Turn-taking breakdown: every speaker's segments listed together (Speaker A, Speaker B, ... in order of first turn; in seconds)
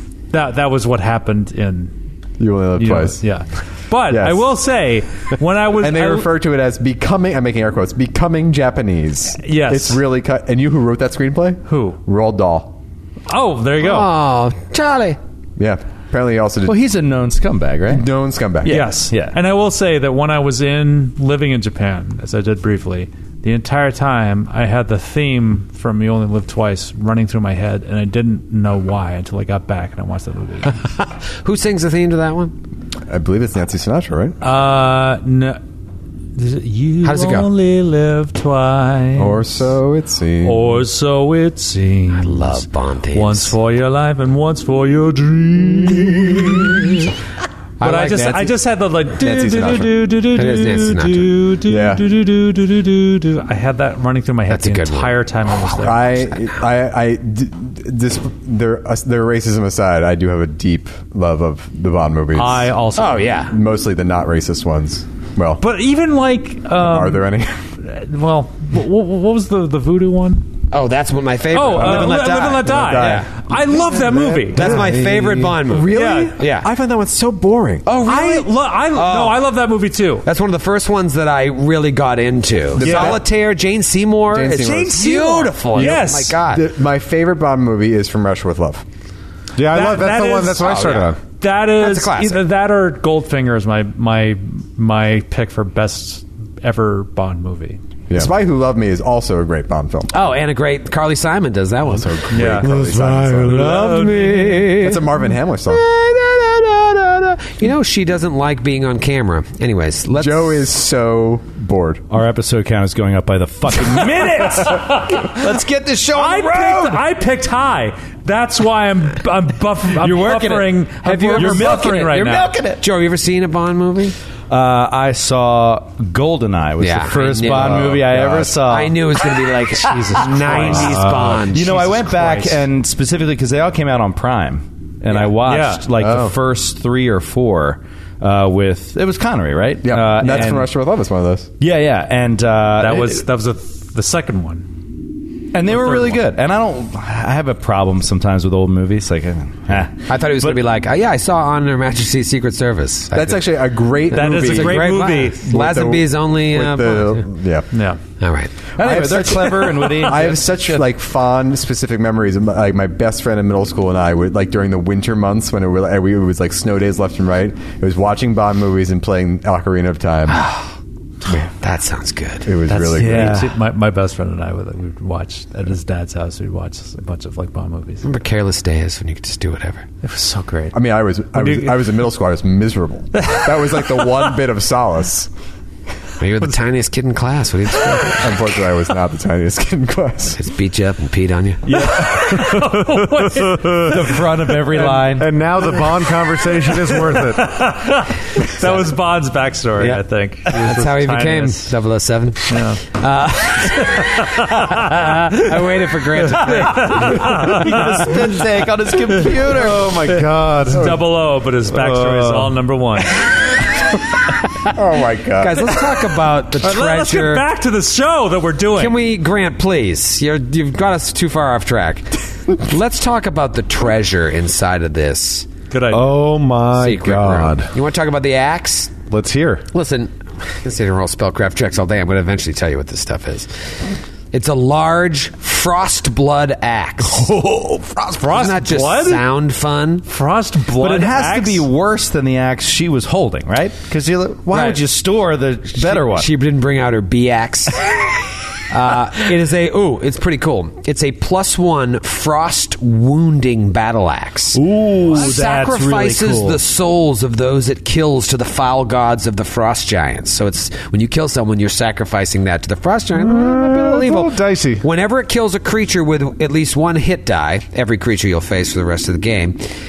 Speaker A: 0.3-1.9, 2.8-6.3, 9.4-10.0, 11.7-12.0, 13.3-14.1, 18.6-30.8, 34.4-35.6, 36.3-39.4, 40.4-47.1, 47.8-56.3, 62.3-63.4, 65.6-67.3, 67.8-70.5, 71.5-74.9, 75.9-76.3, 78.0-80.2, 82.8-83.2, 85.7-86.4, 89.7-90.8, 91.4-97.8, 102.3-102.7, 103.5-104.8, 114.5-115.5, 116.1-122.6, 130.3-132.6, 135.4-135.9, 142.8-144.7, 145.7-146.2, 154.1-155.4, 157.7-158.0, 172.7-178.1, 180.0-180.8, 181.3-182.0, 183.2-184.3, 191.7-195.0, 196.5-201.7, 202.5-202.8, 203.6-205.2, 206.3-208.3, 209.1-213.5, 216.6-219.0, 225.7-226.1, 238.1-239.2, 240.1-241.7
Speaker B: 2.4-3.2, 4.1-4.5, 5.8-12.8, 15.6-16.8, 17.9-18.9, 33.1-34.4, 39.2-40.8, 47.8-48.6, 49.2-49.9, 51.7-52.0, 55.8-62.7, 63.5-65.6, 66.8-67.6, 71.7-77.9, 82.7-83.2, 84.3-88.8, 98.1-100.1, 101.8-103.8, 104.7-105.8, 110.1-112.0, 127.5-128.6, 136.0-136.4, 139.8-141.5, 153.1-157.7, 158.8-170.4, 172.4-173.4, 180.7-185.3, 188.1-190.4, 210.7-211.0, 214.7-215.8
Speaker C: 13.8-15.2, 31.0-32.5, 37.0-37.5, 42.1-43.5, 47.8-48.1, 50.3-51.3, 54.5-55.9, 62.9-63.5, 70.7-73.3, 74.5-76.7, 77.8-79.4, 80.2-86.7, 90.6-91.1, 91.8-92.4, 100.1-110.6, 121.0-122.2, 122.8-124.2, 126.8-132.0, 150.1-153.5, 154.1-157.3, 158.2-158.5, 170.3-170.7, 171.2-172.5, 178.0-179.8, 186.2-188.3, 190.4-191.7, 199.8-207.5, 215.4-217.4, 218.7-225.5, 226.7-228.9, 229.7-233.7, 234.3-237.3, 238.2-240.0, 244.5-244.8, 245.7-248.0, 248.7-269.7
Speaker D: 16.6-18.1, 18.6-19.4, 112.1-117.0, 120.0-120.8, 121.3-122.8, 124.5-129.3, 130.1-140.7, 141.6-143.2, 145.5-150.6, 158.8-160.8, 172.9-173.5, 191.7-192.8, 193.6-195.3, 207.0-210.0, 237.3-238.1, 240.8-246.3, 254.5-256.6
Speaker E: 89.5-91.2, 195.0-197.6, 209.5-211.0, 211.9-212.3, 225.9-227.7, 229.1-229.7, 263.1-264.8